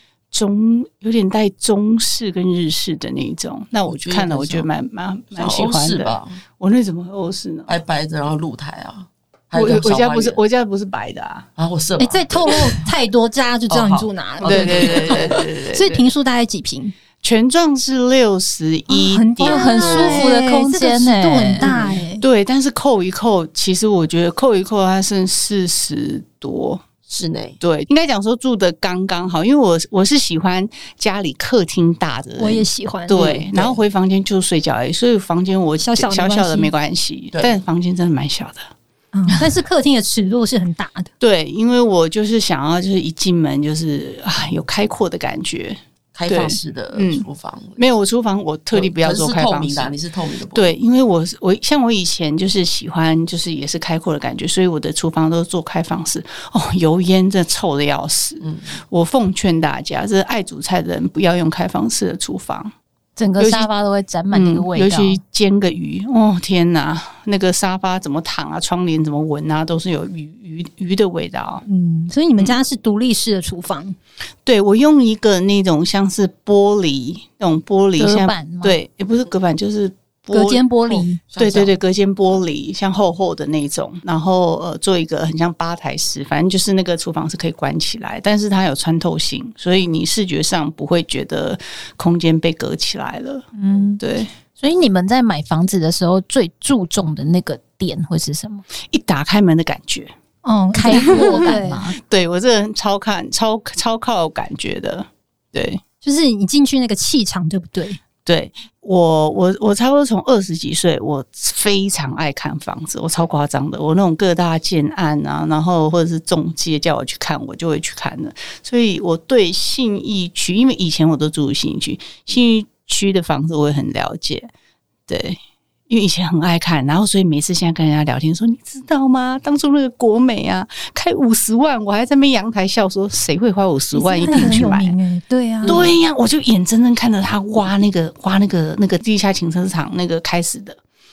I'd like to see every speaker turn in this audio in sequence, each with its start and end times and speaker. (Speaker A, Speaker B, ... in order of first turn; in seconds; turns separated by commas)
Speaker A: 0.3-7.7, Speaker B: 3.9-4.7, Speaker B: 5.3-6.4, Speaker B: 7.7-10.4, Speaker A: 9.5-11.5, Speaker B: 11.6-12.8, Speaker C: 12.0-16.9, Speaker B: 13.7-15.4, Speaker A: 14.4-16.1, Speaker A: 17.2-20.2, Speaker C: 18.9-22.2, Speaker D: 19.4-21.7, Speaker A: 21.6-26.8, Speaker B: 27.1-27.6, Speaker A: 27.6-38.7, Speaker C: 32.4-33.3, Speaker B: 33.1-33.8, Speaker C: 35.8-36.7, Speaker C: 39.1-41.1, Speaker A: 41.2-47.2, Speaker B: 46.1-47.8, Speaker A: 47.8-49.9, Speaker B: 48.7-50.7, Speaker A: 50.5-62.7, Speaker D: 63.2-65.2, Speaker A: 63.4-63.7, Speaker A: 64.3-71.6, Speaker C: 71.7-74.0, Speaker A: 74.4-93.5, Speaker D: 78.0-78.8, Speaker C: 80.3-81.2, Speaker B: 81.3-81.7, Speaker D: 93.5-94.0, Speaker A: 94.0-94.3, Speaker D: 94.6-98.6, Speaker A: 98.9-100.1, Speaker C: 100.4-101.9, Speaker D: 100.7-102.0, Speaker A: 100.9-105.8, Speaker C: 106.0-108.0, Speaker A: 108.2-124.5, Speaker A: 125.1-134.9, Speaker C: 133.9-135.7, Speaker A: 135.6-140.8, Speaker B: 135.6-135.9